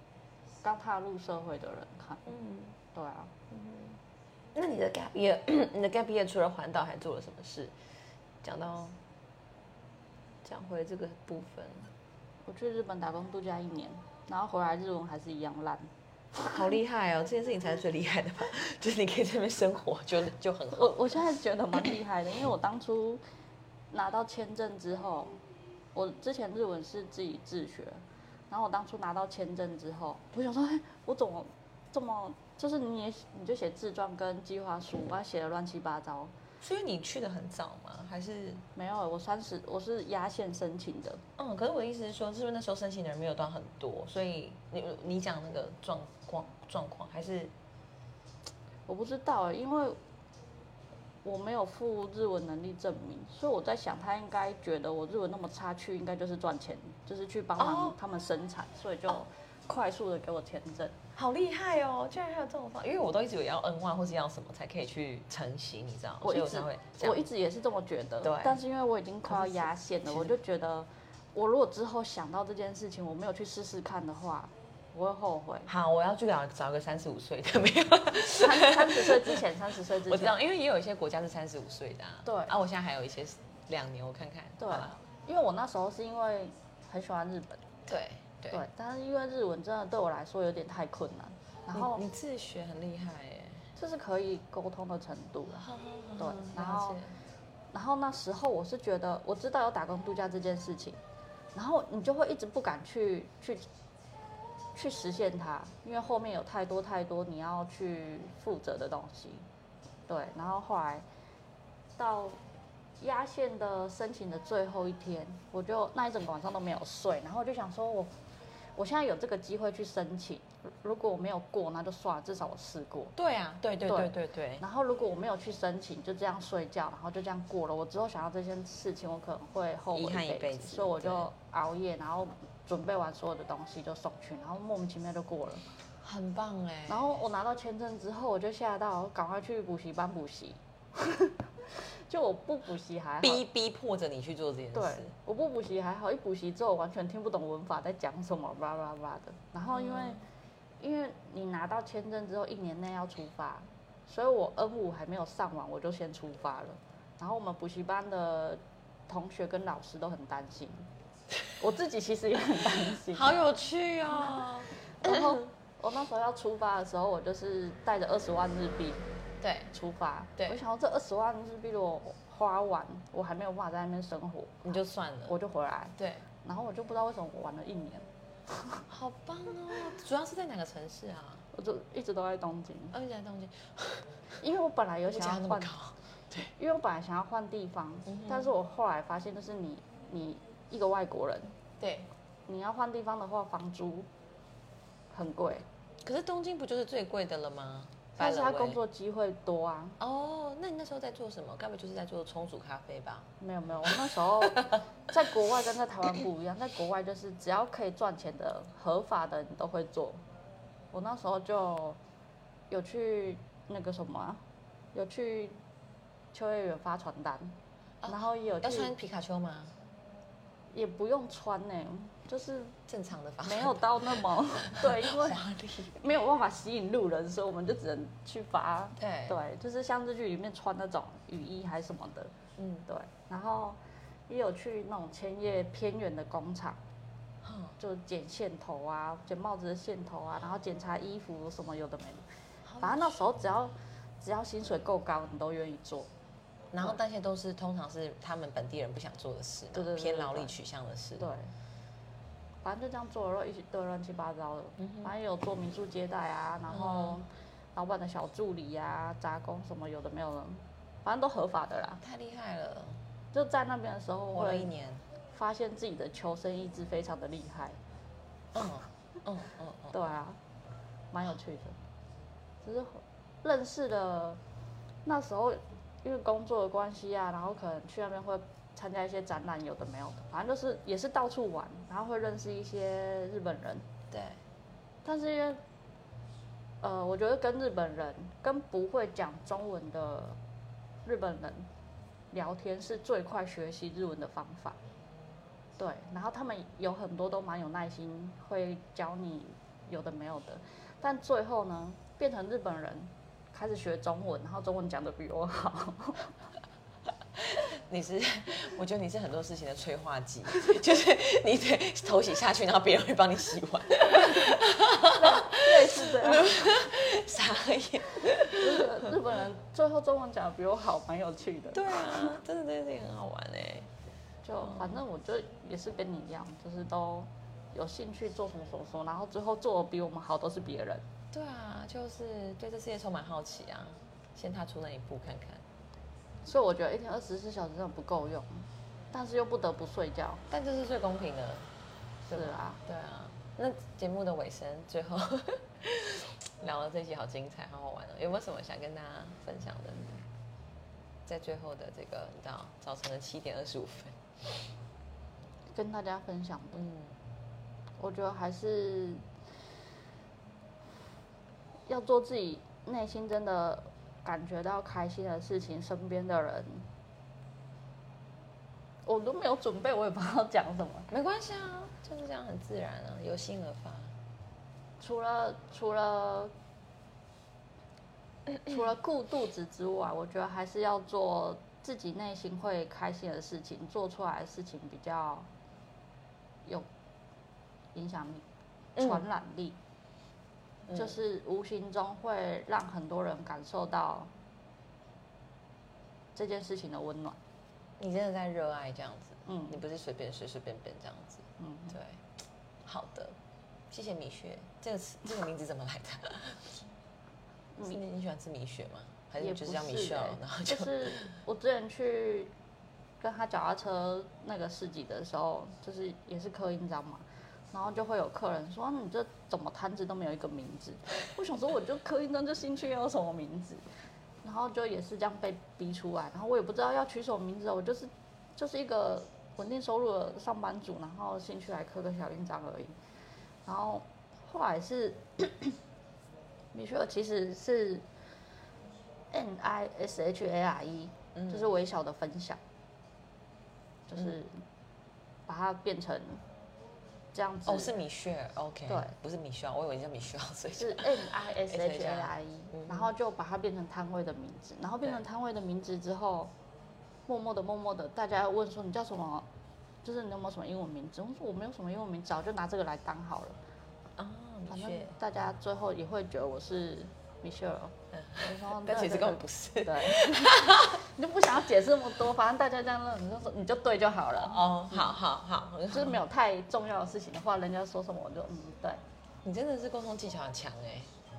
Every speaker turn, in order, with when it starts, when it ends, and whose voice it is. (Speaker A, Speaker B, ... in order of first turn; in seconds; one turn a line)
Speaker A: 0.6-2.3
Speaker B: 2.2-2.8
Speaker A: 2.9-3.3
Speaker B: 3.5-4.0
Speaker B: 4.5-7.7
Speaker B: 8.4-9.0
Speaker B: 10.4-11.9
Speaker A: 12.4-15.9
Speaker B: 16.4-21.2
Speaker A: 20.7-23.2
Speaker A: 23.9-25.4
Speaker A: 25.9-36.3
Speaker B: 36.6-38.6
Speaker A: 38.8-41.2
Speaker B: 41.4-47.5
Speaker A: 48.9-50.0
Speaker A: 51.2-61.0
Speaker B: 57.6-58.0
Speaker B: 61.1-67.3
Speaker A: 66.2-75.7
Speaker B: 68.2-68.6
Speaker B: 69.3-70.3
Speaker B: 75.7-85.0
Speaker A: 78.4-80.4
Speaker A: 82.2-82.5
Speaker A: 84.6-87.7
Speaker B: 87.9-88.6
Speaker A: 88.5-92.0
Speaker B: 91.7-93.7
Speaker A: 93.8-95.7
Speaker B: 95.5-97.2
Speaker A: 96.2-97.0
Speaker A: 97.7-101.0
Speaker A: 101.5-103.7
Speaker A: 104.7-109.5
Speaker A: 110.1-111.0
Speaker A: 112.0-112.4
Speaker A: 113.0-118.1
Speaker A: 118.8-123.1
Speaker B: 123.2-124.6
Speaker A: 123.8-135.6
Speaker B: 129.9-131.3
Speaker B: 136.0-137.2
Speaker A: 136.9-143.4
Speaker B: 143.2-145.1
Speaker A: 144.7-150.2
Speaker B: 149.7-150.2
Speaker A: 150.8-160.9
Speaker A: 161.6-163.4
Speaker B: 162.9-165.5
Speaker A: 164.1-164.4
Speaker A: 165.0-169.0
Speaker B: 169.4-169.7
Speaker A: 169.7-174.8
Speaker B: 174.6-175.4
Speaker A: 175.3-178.8
Speaker B: 176.0-176.2
Speaker B: 178.9-181.4
Speaker A: 181.5-182.9
Speaker B: 182.9-184.1
Speaker A: 184.4-185.7
Speaker B: 185.1-186.5
Speaker A: 186.5-191.5
Speaker B: 188.1-188.5
Speaker B: 191.8-192.1
Speaker A: 192.5-194.1
Speaker A: 195.1-195.7
Speaker B: 196.0-198.8
Speaker A: 198.2-200.0
Speaker B: 200.0-203.3
Speaker A: 203.4-210.2
Speaker B: 203.9-204.8
Speaker A: 210.9-212.0
Speaker A: 212.7-214.4
Speaker A: 214.9-215.6
Speaker A: 216.3-217.6
Speaker B: 218.0-219.7
Speaker A: 218.1-218.9
Speaker A: 220.7-222.8
Speaker B: 222.9-226.0
Speaker A: 223.4-232.3
Speaker B: 229.0-229.4
Speaker B: 232.6-232.9
Speaker A: 232.9-236.8
Speaker B: 237.4-237.8
Speaker A: 237.8-242.3
Speaker B: 242.6-243.2
Speaker A: 242.8-246.1
Speaker B: 246.7-251.3
Speaker A: 249.7-250.5
Speaker A: 251.2-251.5
Speaker A: 252.6-262.0
Speaker B: 254.8-255.1
Speaker B: 256.7-257.2
Speaker B: 262.0-263.0
Speaker A: 263.3-264.7
Speaker B: 264.3-265.0
Speaker A: 265.3-267.8
Speaker B: 268.5-270.0
Speaker A: 269.9-270.4
Speaker A: 271.1-271.8
Speaker A: 272.6-274.4
Speaker A: 275.0-283.9
Speaker B: 284.1-284.4
Speaker A: 285.0-285.6
Speaker A: 286.8-290.4
Speaker A: 291.0-291.7
Speaker A: 292.3-294.8
Speaker A: 295.8-306.4
Speaker B: 307.4-319.1
Speaker A: 314.1-316.6
Speaker A: 318.4-322.3
Speaker B: 321.7-323.9
Speaker A: 324.4-331.0
Speaker B: 324.6-325.0
Speaker B: 331.3-335.6
Speaker A: 336.4-340.4
Speaker B: 340.5-341.6
Speaker A: 342.3-342.8
Speaker B: 342.3-350.2
Speaker B: 351.2-354.2
Speaker A: 355.7-356.8
Speaker B: 356.7-357.1
Speaker A: 358.0-359.2
Speaker A: 361.9-366.9
Speaker A: 369.0-371.1
Speaker B: 371.1-374.1
Speaker A: 375.0-376.5
Speaker A: 378.6-385.5
Speaker A: 387.9-388.4
Speaker A: 388.9-389.8
Speaker B: 389.0-389.2
Speaker A: 390.9-394.3
Speaker A: 396.3-397.4
Speaker B: 398.0-402.2
Speaker A: 399.5-399.8
Speaker A: 401.6-401.9
Speaker B: 402.8-403.4
Speaker B: 403.9-406.7
Speaker A: 407.7-408.0
Speaker B: 407.9-411.4
Speaker A: 409.4-412.5
Speaker A: 413.2-423.8
Speaker A: 424.4-432.9
Speaker A: 433.6-435.8
Speaker A: 436.7-438.1
Speaker A: 439.3-442.6
Speaker B: 441.3-441.6
Speaker A: 444.1-444.6
Speaker A: 445.5-446.4
Speaker A: 447.3-447.9
Speaker B: 447.6-453.1
Speaker A: 448.9-449.1
Speaker A: 450.7-456.5
Speaker A: 457.3-459.5
Speaker A: 460.0-463.6
Speaker B: 464.2-465.1
Speaker A: 464.7-475.0
Speaker B: 468.1-471.0
Speaker B: 474.4-476.2
Speaker A: 475.9-479.0
Speaker B: 479.4-481.1